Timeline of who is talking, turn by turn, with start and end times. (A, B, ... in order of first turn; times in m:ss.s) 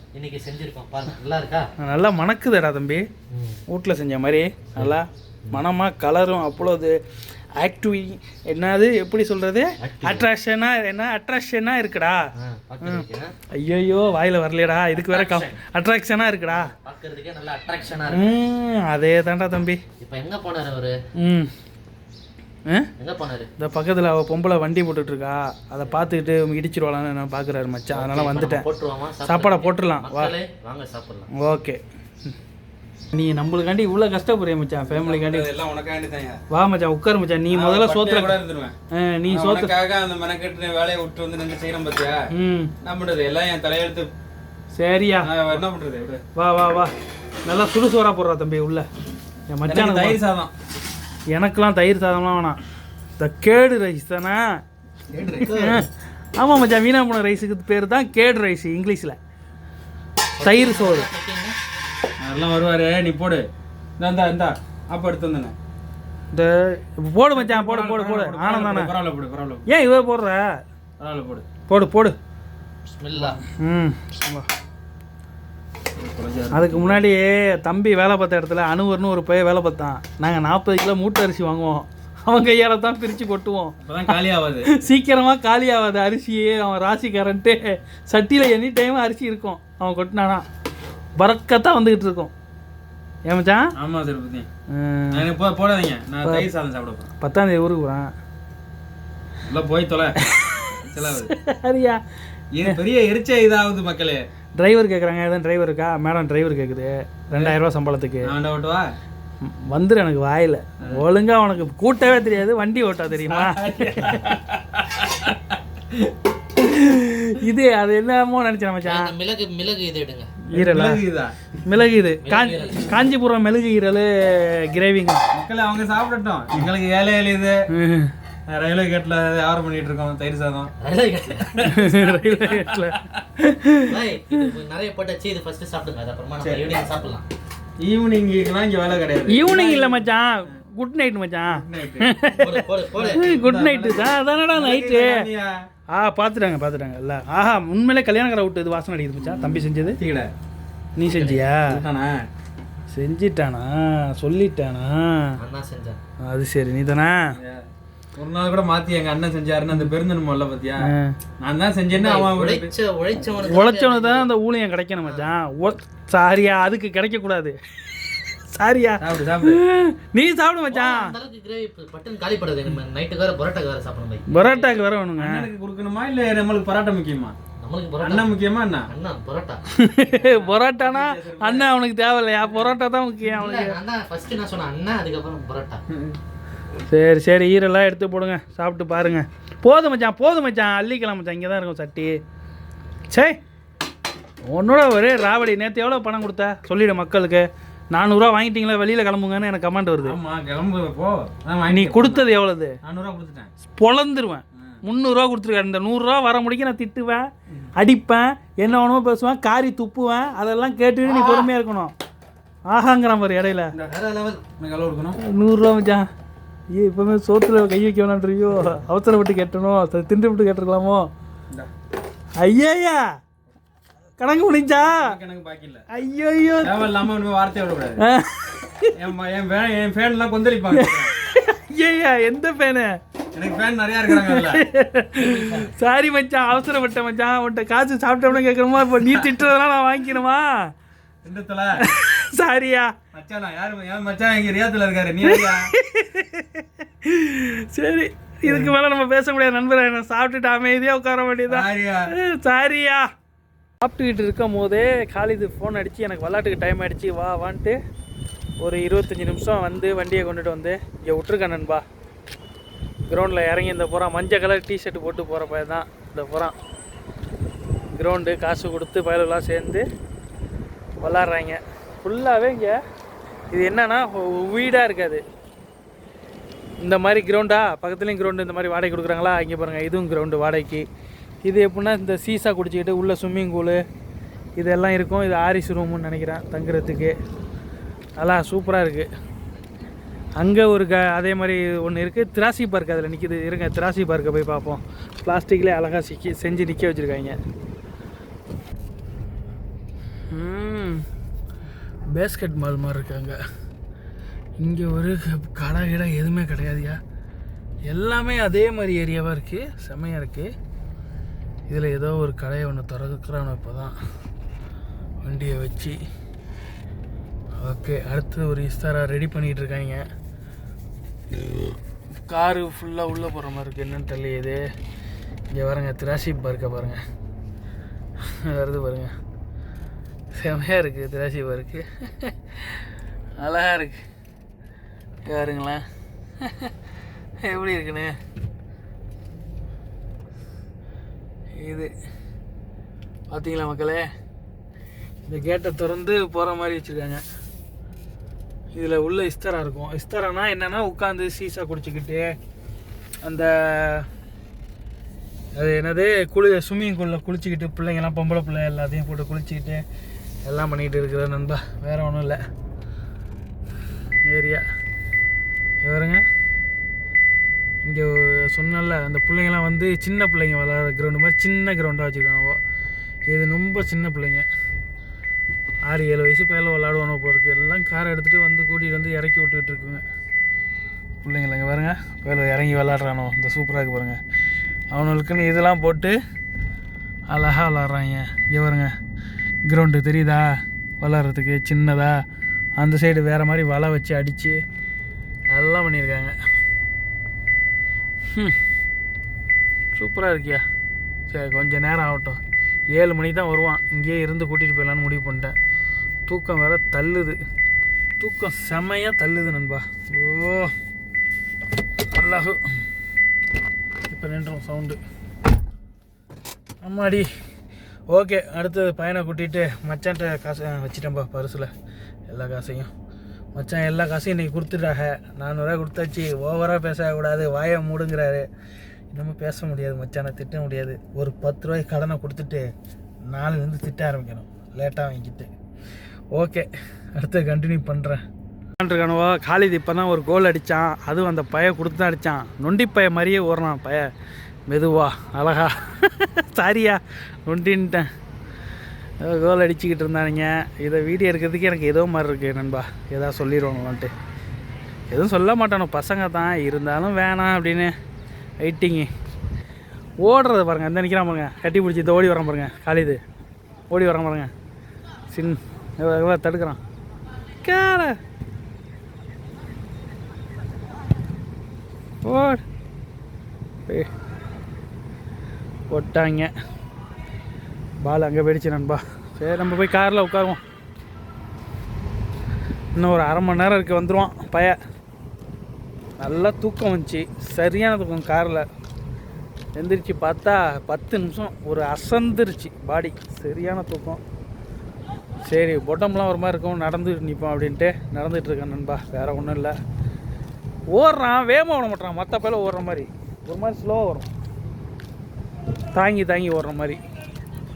0:00.1-0:01.7 A
0:01.8-0:03.1 B
0:03.3-0:03.6 A
0:03.7-0:07.0 B
0:04.8-0:05.6 A
0:07.6-0:12.2 B
0:09.8-0:10.2 A
0:12.4-0:13.3 A
0:12.8-0:16.7 B
0:15.1-0:15.6 A
0:16.4-0:18.3 A
0:18.1-0:19.8 B
0:20.0-0:21.0 A
0:21.2-0:21.5 B
0:23.0-0:23.5 A
0:23.6-0:28.6 B
0:27.9-0:31.3 A
0:29.2-0:30.3 B
0:31.4-0:32.3 B
0:33.1-0:35.5 B
0:34.9-0:36.4 C
0:36.5-0:38.4 B
0:37.5-0:38.7 C
0:38.9-0:39.7 B
0:39.3-0:42.3 C
0:42.3-0:42.7 B
0:42.8-0:44.1 C
0:44.7-0:45.6 B
0:45.2-0:46.2 C
0:46.4-0:46.9 B
0:47.4-0:48.8 B
0:49.5-0:50.2 B
0:49.7-0:50.5 C
0:51.3-0:52.6 B
0:53.2-0:54.6 B
0:55.1-0:55.7 C
0:55.4-0:55.8 B
0:56.4-0:59.2 B
1:00.4-1:01.6 A
1:00.4-1:01.1 B
1:02.2-1:03.4 C
1:04.0-1:05.5 C
1:06.3-1:08.9 B
1:07.3-1:09.6 C
1:09.6-1:10.6 B
1:11.0-1:11.4 C
1:11.7-1:12.1 B
1:12.9-1:13.4 A
1:13.5-1:14.5 B
1:16.0-1:17.0 C
1:16.5-1:24.1 B
1:23.8-1:24.7 C
1:24.7-1:30.4 B
1:31.2-1:32.3 B
1:33.3-1:33.7 B
1:33.8-1:34.5 C
1:34.7-1:35.3 B
1:35.1-1:37.1 C
1:37.2-1:38.1 B
1:39.5-1:40.2 C
1:40.2-1:42.0 B
1:40.7-1:41.3 C
1:42.5-1:44.2 C
1:44.6-1:48.3 B
1:48.2-1:48.9 C
1:49.4-1:54.3 B
1:53.2-1:56.1 C
1:56.6-1:59.1 B
1:58.8-2:00.3 A
2:00.4-2:01.0 B
2:00.5-2:01.3 C
2:01.6-2:05.3 B
2:02.2-2:03.0 A
2:05.3-2:07.6 C
2:07.7-2:08.1 B
2:08.5-2:10.7 C
2:10.8-2:11.8 A
2:11.4-2:12.9 C
2:11.6-2:14.4 B
2:13.9-2:17.2 A
2:16.4-2:16.8 C
2:17.8-2:20.0 C
2:19.3-2:25.3 B
2:21.5-2:22.3 C
2:22.3-2:23.2 A
2:22.9-2:25.6 C
2:25.9-2:30.0 B
2:29.9-2:30.3 C
2:31.0-2:31.8 B
2:31.0-2:31.4 A
2:31.7-2:32.3 C
2:32.9-2:35.4 B
2:35.4-2:36.0 A
2:36.2-2:37.3 B
2:37.4-2:42.7 C
2:40.8-2:41.2 B
2:41.9-2:44.3 A
2:43.4-2:47.6 B
2:48.5-2:51.1 B
2:49.0-2:49.6 C
2:50.7-2:54.8 A
2:54.3-2:55.4 B
2:55.2-2:57.3 C
2:57.6-2:58.3 A
2:58.0-2:58.9 C
2:58.9-2:59.6 A
2:59.7-3:03.8 B
3:00.1-3:01.7 C
3:03.2-3:05.8 A
3:05.9-3:06.2 C
3:06.9-3:12.2 B
3:13.1-3:13.4 B
3:14.5-3:20.2 B
3:20.0-3:22.2 C
3:21.7-3:22.8 B
3:22.8-3:23.5 C
3:23.8-3:31.9 B
3:32.7-3:33.7 B
3:33.9-3:34.4 A
3:34.6-3:35.2 C
3:35.2-3:36.0 B
3:36.7-3:41.1 B
3:42.4-3:43.1 B
3:44.2-3:45.1 B
3:44.8-3:45.8 C
3:45.9-3:46.9 B
3:46.6-3:48.0 C
3:48.0-3:48.9 B
3:49.0-3:51.1 C
3:50.7-3:53.0 B
3:53.3-3:54.6 C
3:54.1-4:00.7 B
3:55.2-3:55.7 C
3:59.1-3:59.3 C
4:01.2-4:01.8 C
4:01.8-4:02.9 B
4:03.1-4:05.7 C
4:05.2-4:13.1 B
4:08.4-4:08.7 C
4:11.5-4:12.1 C
4:13.8-4:17.8 B
4:18.6-4:21.8 B
4:23.1-4:26.5 B
4:27.9-4:29.8 B
4:31.0-4:32.8 B
4:33.5-4:35.2 B
4:36.8-4:40.8 B
4:41.4-4:43.8 B
4:44.6-4:47.1 B
4:48.2-4:49.1 B
4:50.4-4:57.4 B
5:00.3-5:01.0 B
5:02.1-5:03.4 B
5:04.6-5:07.0 B
5:07.8-5:10.5 B
5:11.7-5:14.0 B
5:15.2-5:16.0 B
5:17.6-5:20.0 B
5:22.2-5:24.6 B
5:25.5-5:27.0 B
5:28.2-5:29.1 B
5:30.3-5:32.8 B
5:33.4-5:34.0 B
5:35.3-5:35.8 B
5:36.4-5:36.7 B
5:37.4-5:38.2 B
5:41.6-5:41.9 B
5:43.3-5:44.1 B
5:45.3-5:47.2 B
5:48.7-5:52.4 B
5:53.2-5:54.1 B
5:55.6-5:59.8 B
6:00.4-6:02.4 B
6:04.2-6:04.6 B
6:05.8-6:06.2 B
6:07.8-6:12.6 B
6:13.3-6:14.4 B
6:15.8-6:20.0 B
6:21.2-6:24.2 B
6:24.9-6:26.2 B
6:27.3-6:28.9 B
6:29.7-6:32.2 B
6:32.8-6:34.6 B
6:35.5-6:36.4 B
6:39.9-6:40.6 B
6:41.3-6:42.4 B
6:42.9-6:45.6 B
6:46.3-6:47.4 B
6:48.2-6:50.7 B
6:52.1-6:52.6 B
6:54.1-6:55.0 B
6:56.8-6:57.3 B
6:58.1-7:01.7 B
7:02.3-7:02.9 B
7:03.5-7:08.4 B
7:09.1-7:12.6 B
7:13.3-7:15.5 B
7:16.3-7:18.2 B
7:18.8-7:24.1 B
7:24.7-7:28.1 B
7:29.2-7:34.1 B
7:35.1-7:37.9 B
7:38.6-7:39.1 B
7:40.2-7:43.2 B
7:43.9-7:44.5 B
7:45.3-7:46.8 B
7:47.6-7:48.2 B
7:52.2-7:52.6 B
7:55.9-7:56.5 B
7:58.0-8:00.6 B
8:03.0-8:04.8 B
8:06.2-8:08.6 B
8:09.8-8:14.2 B
8:15.4-8:19.7 B
8:20.9-8:24.3 B
8:25.9-8:27.0 B